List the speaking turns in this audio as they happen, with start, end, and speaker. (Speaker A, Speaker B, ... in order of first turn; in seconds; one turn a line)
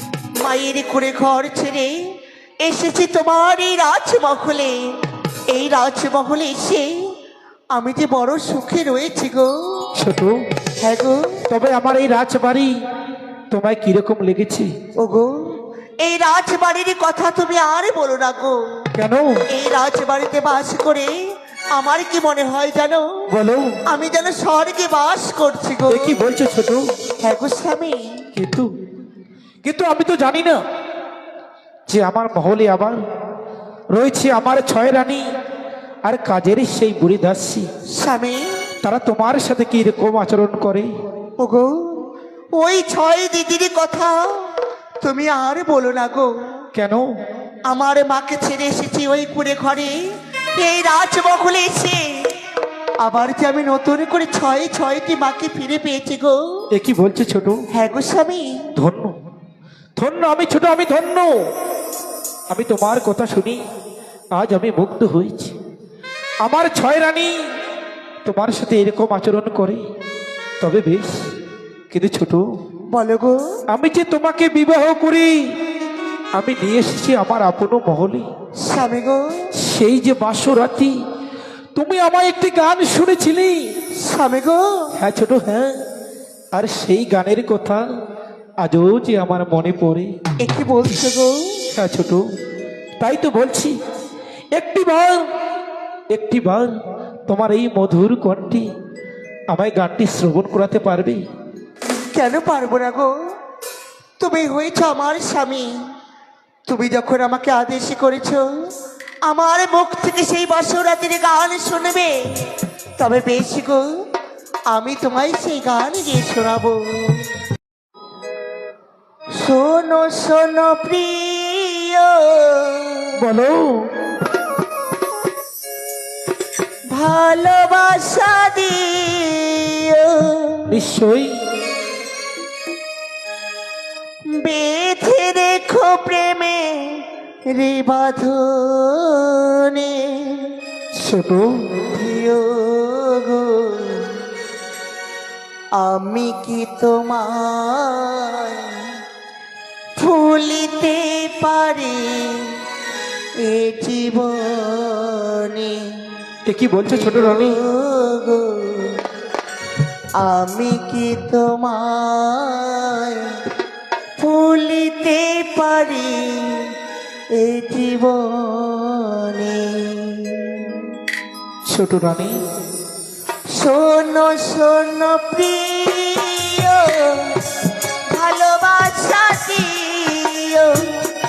Speaker A: 0.4-5.0
Speaker A: 5.5-7.1
Speaker A: 7.7-9.9
Speaker B: 10.0-10.4
Speaker A: 10.8-11.4
Speaker B: 11.5-12.8
Speaker B: 13.5-14.7
Speaker A: 15.0-18.9
Speaker B: 18.9-19.4
Speaker A: 19.5-21.1
Speaker A: 21.7-23.3
Speaker B: 23.3-23.8
Speaker A: 23.9-26.2
Speaker B: 25.9-26.9
Speaker A: 27.2-28.3
Speaker B: 28.4-28.7
Speaker B: 29.6-30.6
Speaker B: 31.9-33.0
Speaker B: 33.9-35.3
Speaker B: 36.0-37.7
Speaker A: 37.9-38.6
Speaker B: 38.8-40.9
Speaker A: 41.4-42.0
Speaker A: 42.5-46.5
Speaker B: 46.8-47.2
Speaker A: 47.6-52.3
Speaker A: 53.0-56.6
Speaker B: 56.7-57.6
Speaker A: 57.7-58.7
Speaker B: 58.8-59.2
Speaker B: 60.0-61.5
Speaker B: 62.5-63.6
Speaker B: 64.3-65.5
Speaker B: 66.4-67.5
Speaker B: 68.2-69.8
Speaker B: 70.6-71.2
Speaker B: 71.9-72.5
Speaker A: 72.9-73.4
Speaker B: 73.7-75.4
Speaker B: 76.3-78.3
Speaker A: 78.6-79.5
Speaker B: 79.6-81.0
Speaker B: 81.8-83.7
Speaker A: 84.0-84.9
Speaker B: 85.0-85.8
Speaker B: 86.5-87.8
Speaker B: 88.6-90.1
Speaker A: 90.4-91.7
Speaker B: 91.7-92.3
Speaker B: 93.0-93.8
Speaker B: 94.5-95.3
Speaker B: 96.1-96.7
Speaker B: 97.3-98.7
Speaker B: 99.5-101.2
Speaker A: 102.1-103.1
Speaker A: 104.2-105.8
Speaker A: 106.7-108.5
Speaker A: 109.3-113.9
Speaker A: 114.7-117.3
Speaker A: 119.4-123.2
Speaker B: 123.2-123.9
Speaker A: 126.9-130.8
Speaker B: 130.7-131.4
Speaker A: 134.3-140.6
Speaker B: 141.0-141.6
Speaker A: 141.8-144.2
Speaker A: 145.8-148.9
Speaker A: 150.0-152.6
Speaker A: 153.4-156.1
Speaker B: 156.4-157.6
Speaker A: 156.9-159.0
Speaker A: 160.2-163.4
Speaker A: 164.2-166.7
Speaker A: 167.3-170.9
Speaker B: 171.7-172.4
Speaker A: 173.5-177.4
Speaker A: 178.1-181.1